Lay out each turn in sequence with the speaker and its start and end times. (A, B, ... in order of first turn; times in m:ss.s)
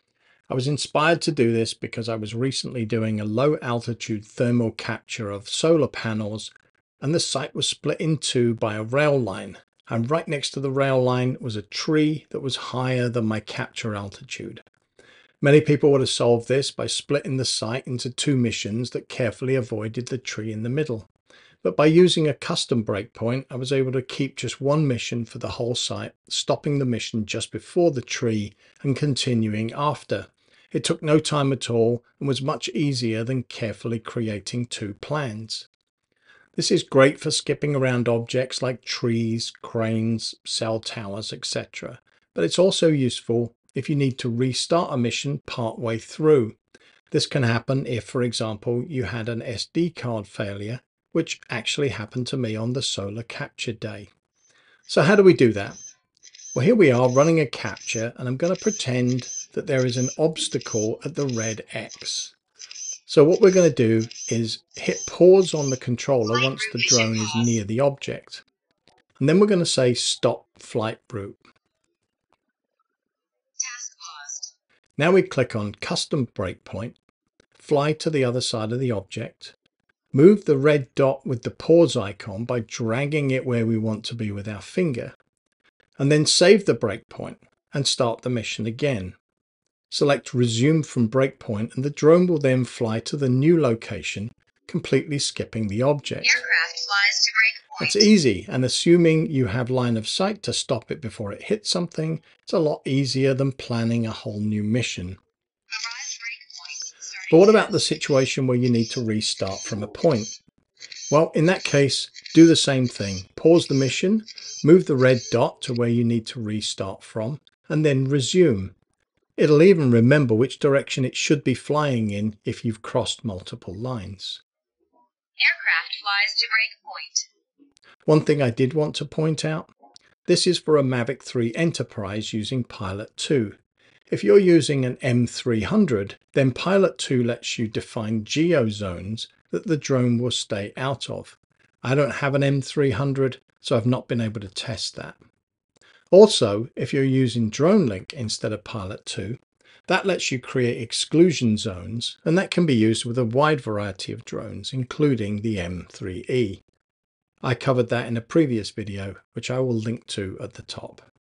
0:00.5-0:14.6 A
0:15.4-0:21.1 A
0:21.6-0:35.7 A
0:36.6-0:46.6 A
0:47.1-0:54.1 A
0:54.9-0:55.8 A
0:56.5-1:02.3 A
1:03.1-1:08.4 A
1:06.2-1:07.6 B
1:09.2-1:11.4 A
1:13.6-1:14.5 B
1:15.0-1:17.0 A
1:17.6-1:19.5 A
1:20.1-1:25.1 A
1:26.0-1:29.2 A
1:29.9-1:36.4 A
1:36.2-1:38.0 B
1:37.8-1:45.2 A
1:45.7-1:47.7 B
1:47.3-1:50.3 A
1:51.1-1:58.7 A
1:59.4-2:04.4 A
2:05.4-2:07.3 B
2:08.0-2:09.7 A
2:10.2-2:13.6 A
2:14.1-2:25.2 A
2:26.1-2:36.6 A
2:37.4-2:41.1 A